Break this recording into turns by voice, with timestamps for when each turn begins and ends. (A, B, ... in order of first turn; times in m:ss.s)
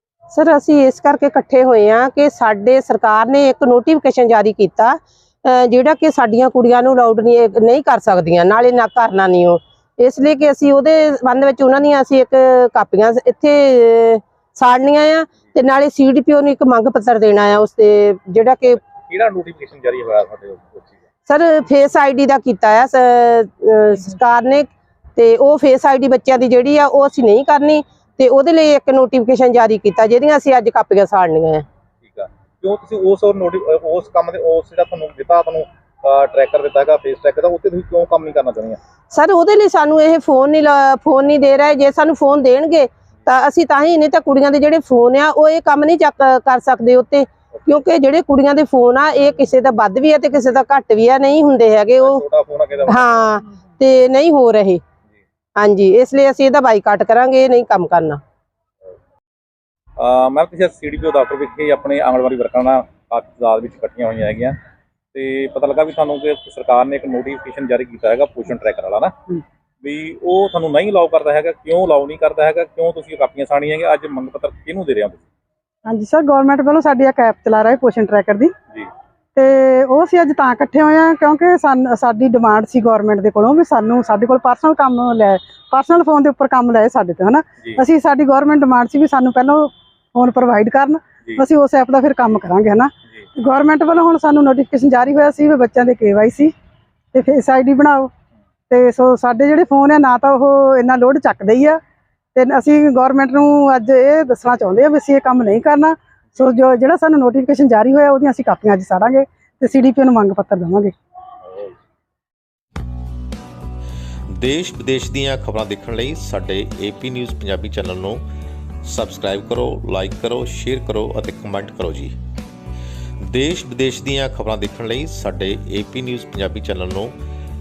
0:00.3-0:18.8 A
0:18.8-0:21.0 B
0:21.2-0:31.6 A
0:32.0-0:38.8 B
0:39.1-0:52.2 A
0:47.5-0:47.8 B
0:52.0-0:53.1 B
0:52.9-0:54.8 A
0:55.6-0:58.2 A
1:00.0-1:04.6 B
1:05.1-1:09.1 B
1:09.8-1:15.2 B
1:15.8-1:18.5 C
1:19.4-1:36.5 C
1:37.1-1:38.1 C
1:38.7-1:41.8 C
1:42.3-1:50.9 C
1:54.4-1:58.2 D
1:58.8-2:02.1 D
2:03.3-2:07.1 D